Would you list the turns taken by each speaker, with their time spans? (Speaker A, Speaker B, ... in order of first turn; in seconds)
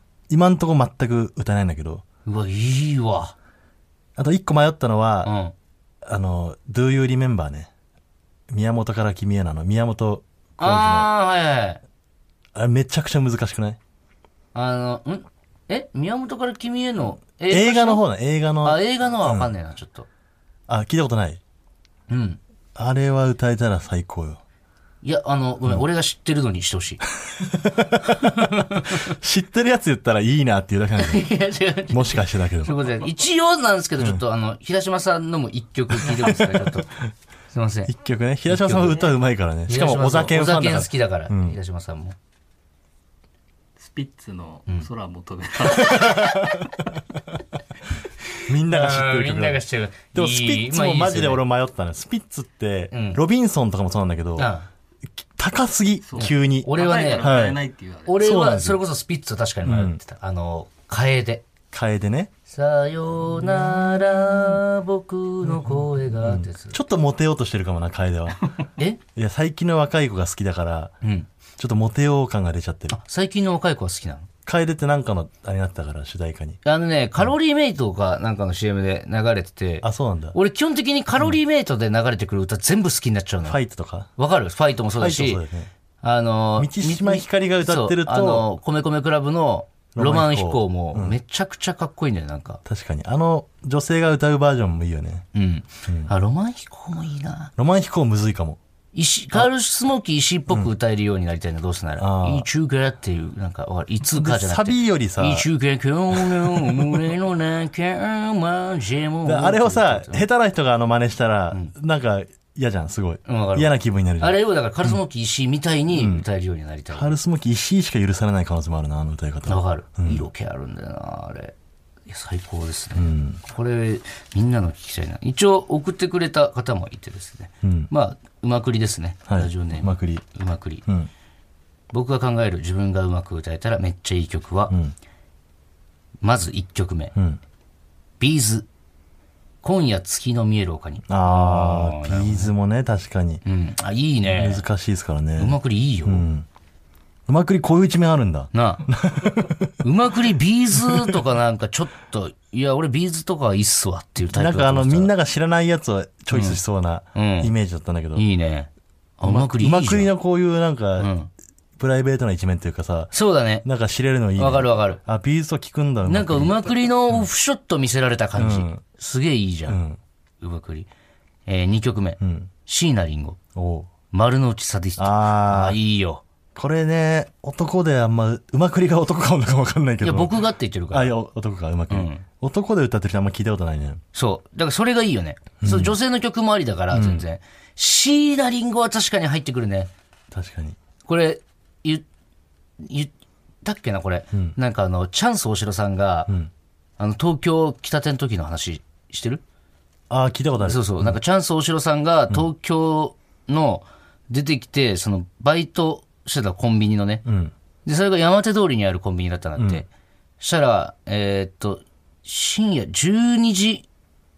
Speaker A: 0.3-2.0, 4.2-5.3, 6.0-7.7, 8.5-11.1, 12.5-13.8, 17.5-19.5, 20.7-21.4, 22.8-24.4, 27.4-31.3, 31.9-32.8, 36.0-36.7, 37.9-41.6, 48.5-54.5, 55.4-57.6, 58.2-58.8, 59.6-60.0, 61.7-62.3, 66.2-68.5, 69.1-70.9, 71.6-73.0, 74.5-76.6, 79.8-80.3, 83.5-84.1, 85.0-85.7, 86.6-88.5, 89.9-91.2, 92.6-95.2, 97.6-98.6, 102.0-102.5, 104.1-105.5, 106.1-106.9, 109.2-115.0, 115.9-116.2, 116.9-120.3, 122.9-123.4, 127.6-127.9, 129.3-130.2, 134.7-134.9, 137.1-137.4, 141.1-143.4, 144.3-146.4, 147.3-149.8, 150.8-151.1, 154.3-158.2, 159.2-161.1, 161.8-167.2, 168.3-168.8, 169.7-170.0, 172.2-172.5, 173.5-173.9, 175.0-175.8, 176.5-184.0, 185.6-186.0, 186.9-187.2, 190.3-190.8, 200.1-201.2, 207.2-207.5, 209.6-209.8
Speaker B: 2.2-3.3, 5.2-5.5, 10.6-11.8, 14.5-18.0, 18.6-20.1, 22.1-22.4, 25.0-27.0, 28.3-29.0, 31.0-37.9, 38.5-39.1, 39.7-42.1, 45.6-46.7, 48.6-51.4, 52.9-53.2, 54.4-54.6, 56.2-57.4, 58.0-61.5, 62.5-66.8, 71.0-71.3, 72.9-74.3, 76.6-83.6, 84.2-85.4, 86.0-92.6, 95.3-97.5, 98.9-110.2, 113.2-117.2, 119.5-121.5, 122.1-130.8, 131.9-134.7, 136.2-137.1, 138.2-138.7, 139.6-142.5, 143.4-144.6, 145.4-146.2, 148.5-148.8, 149.8-155.1, 156.3-156.6, 157.1-157.5, 158.1-160.1, 161.0-161.3, 163.1-163.6, 164.4-165.0, 166.0-169.8, 170.4-170.9, 171.4-173.4, 174.1-176.2, 180.0-181.1, 181.9-182.2, 184.1-189.9, 191.0-192.0, 192.8-193.1, 193.6-196.3, 197.0-199.4, 200.6-207.2, 207.8-209.9, 210.4-213.8
Speaker C: 43.8-46.2, 56.1-58.1